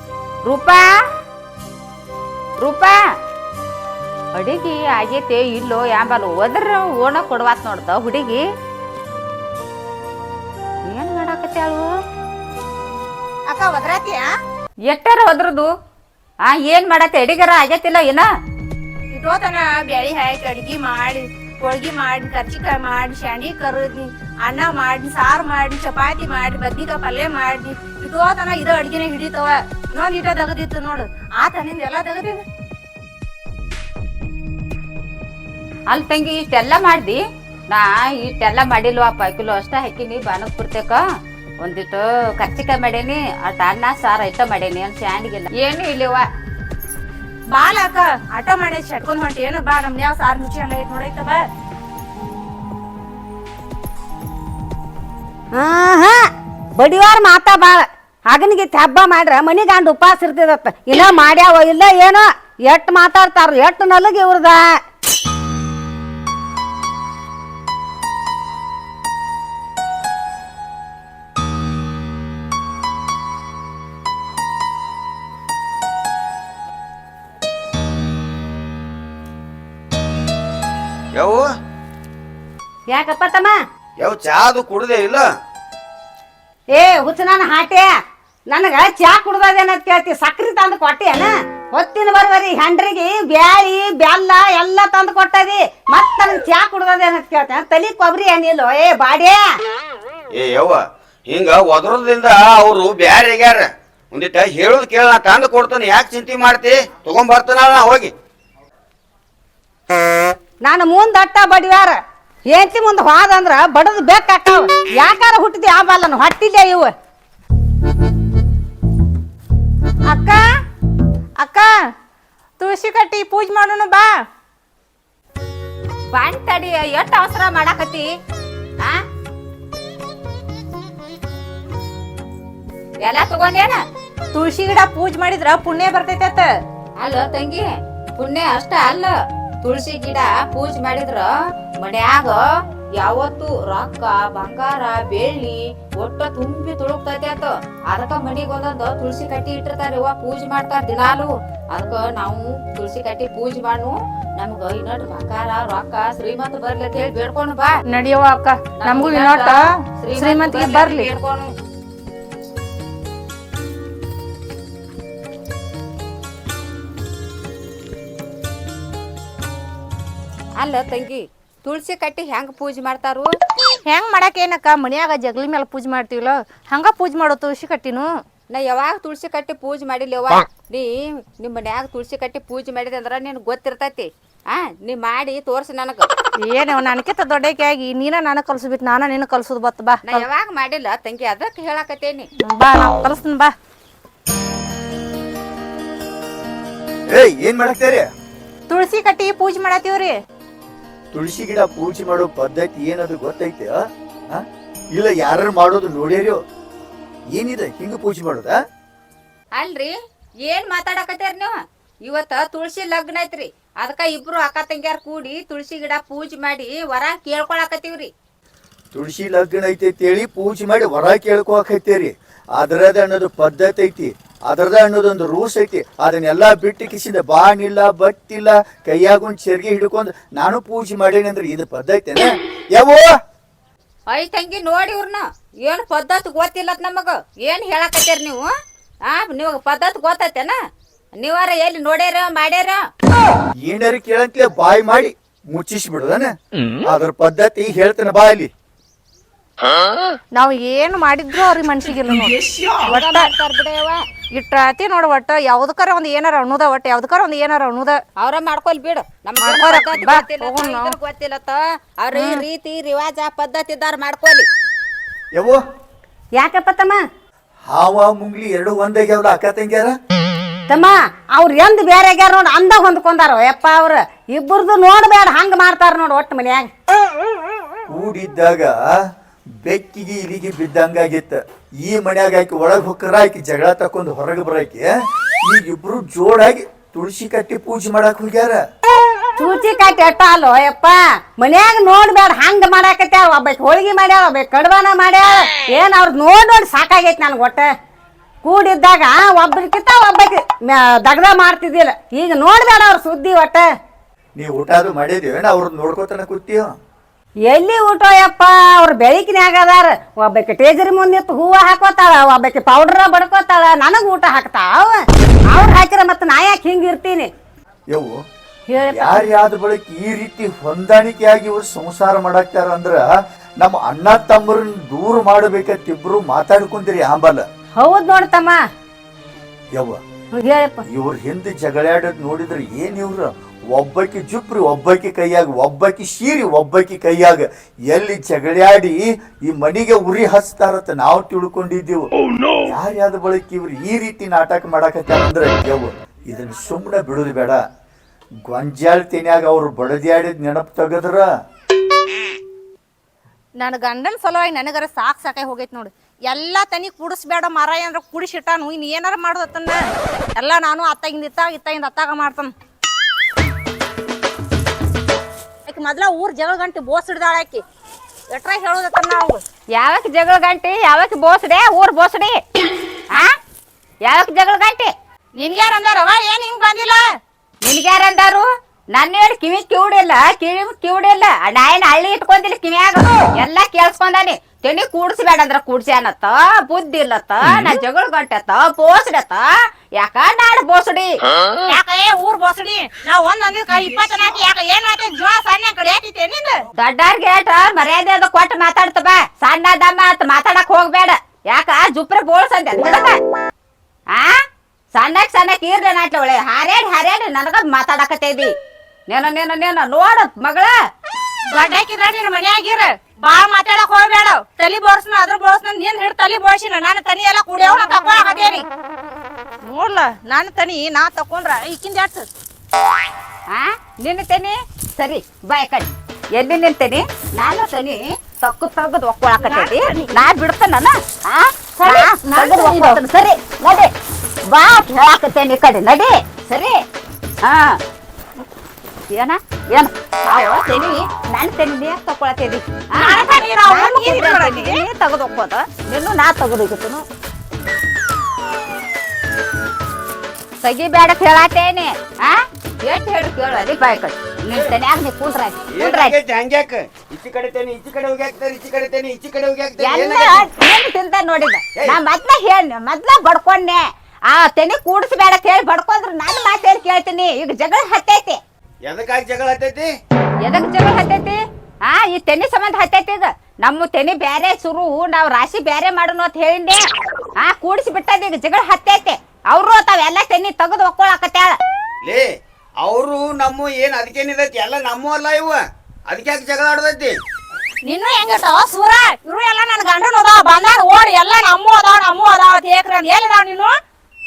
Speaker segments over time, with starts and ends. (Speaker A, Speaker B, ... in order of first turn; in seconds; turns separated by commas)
Speaker A: 0.4-0.9, Speaker A: 2.6-3.0, Speaker A: 4.3-8.4, Speaker A: 10.9-11.9, Speaker B: 13.5-14.3, Speaker A: 14.9-15.7, Speaker A: 16.4-18.3, Speaker B: 19.1-32.4, Speaker A: 35.9-41.0, Speaker A: 41.6-46.2, Speaker B: 47.5-51.4, Speaker C: 55.5-56.2, Speaker C: 56.7-64.6, Speaker D: 81.1-81.5, Speaker C: 82.9-83.6, Speaker D: 84.0-85.3, Speaker C: 86.7-87.9, Speaker C: 88.5-99.4, Speaker D: 100.3-108.1, Speaker C: 110.6-116.9, Speaker B: 120.1-120.4, Speaker B: 121.4-121.7, Speaker B: 122.6-124.1, Speaker A: 126.1-128.1, Speaker A: 133.0-133.8, Speaker B: 134.3-136.5, Speaker A: 137.0-137.6, Speaker A: 138.2-139.1, Speaker A: 139.6-141.3, Speaker A: 141.8-142.4, Speaker A: 143.0-157.8, Speaker B: 157.9-161.1, Speaker A: 158.8-161.5, Speaker A: 170.6-173.3, Speaker B: 173.9-178.1, Speaker A: 178.5-186.1, Speaker B: 186.4-190.2, Speaker A: 190.0-192.3, Speaker B: 192.4-193.5, Speaker E: 197.1-198.1, Speaker B: 198.7-200.2, Speaker E: 201.1-203.8, Speaker E: 204.3-206.4, Speaker E: 207.3-208.6, Speaker A: 209.5-209.9, Speaker A: 210.4-218.1, Speaker E: 218.9-233.1, Speaker A: 234.1-238.5, Speaker A: 239.1-240.6, Speaker A: 241.2-242.8, Speaker E: 243.6-248.5, Speaker B: 250.3-253.3, Speaker A: 252.8-254.0, Speaker B: 254.3-258.0, Speaker A: 258.2-264.5, Speaker B: 259.4-260.9, Speaker B: 262.1-262.4, Speaker C: 266.3-267.0, Speaker E: 267.7-269.9, Speaker C: 270.7-276.7, Speaker E: 277.9-278.8, Speaker E: 279.6-284.9, Speaker E: 285.4-288.6, Speaker C: 289.4-297.7, Speaker C: 298.4-303.6, Speaker E: 304.4-306.7, Speaker C: 307.5-315.0, Speaker C: 315.5-317.3, Speaker C: 318.7-319.0, Speaker E: 318.9-323.0, Speaker E: 323.6-327.4, Speaker C: 327.8-328.6, Speaker C: 330.3-330.8, Speaker E: 330.9-342.1, Speaker E: 342.6-347.6, Speaker E: 348.5-351.3, Speaker B: 353.6-362.5, Speaker B: 365.6-367.6, Speaker B: 368.3-369.4, Speaker A: 369.8-372.4, Speaker A: 374.1-374.9, Speaker B: 375.4-377.0, Speaker A: 377.6-389.5, Speaker A: 390.0-391.2, Speaker B: 391.6-396.6, Speaker A: 396.8-403.2, Speaker A: 404.9-408.5, Speaker A: 409.1-410.7, Speaker B: 411.5-418.6, Speaker B: 419.6-422.3, Speaker A: 423.5-433.9, Speaker B: 429.4-430.2, Speaker B: 431.8-433.0, Speaker A: 434.5-436.8, Speaker A: 437.4-437.8, Speaker A: 439.1-447.0, Speaker B: 442.9-444.8, Speaker A: 450.6-456.1, Speaker D: 455.7-460.4, Speaker A: 459.8-468.4, Speaker D: 468.8-469.9, Speaker A: 470.4-476.8, Speaker A: 477.4-481.6, Speaker D: 482.0-487.2, Speaker B: 487.8-493.7